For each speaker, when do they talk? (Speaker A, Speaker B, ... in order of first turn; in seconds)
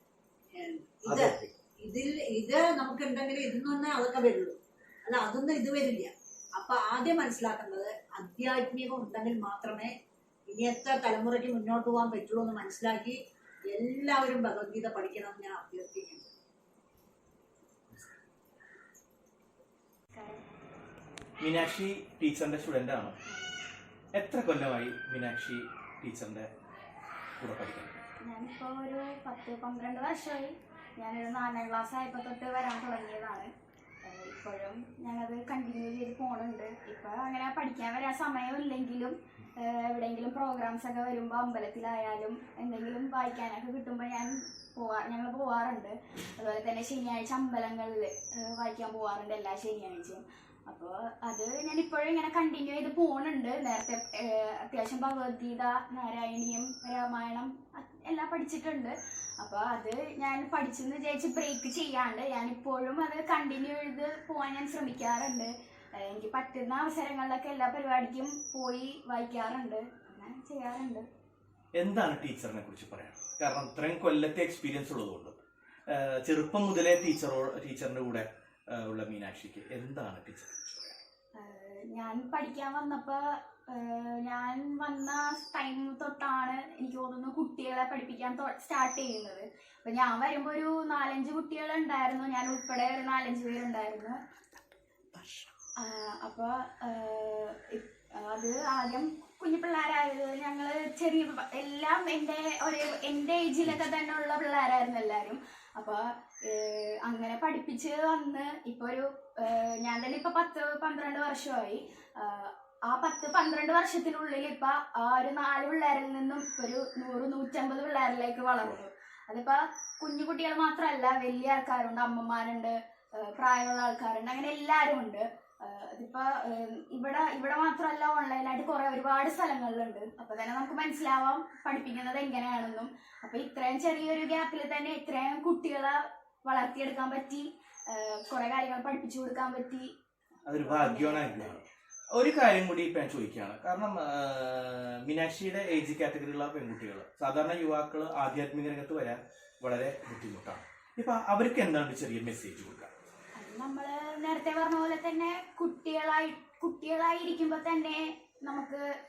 Speaker A: 0.6-9.9, 10.5-13.2, 13.7-16.3
Speaker B: 1.1-1.6, 21.4-23.2, 24.2-26.5, 27.4-28.0, 71.8-75.4, 75.9-81.0, 140.5-141.6, 142.2-152.9
Speaker C: 20.1-20.5, 23.3-23.5, 28.2-33.5, 34.0-71.1, 81.4-94.2, 95.8-139.9, 140.6-141.6, 153.4-158.8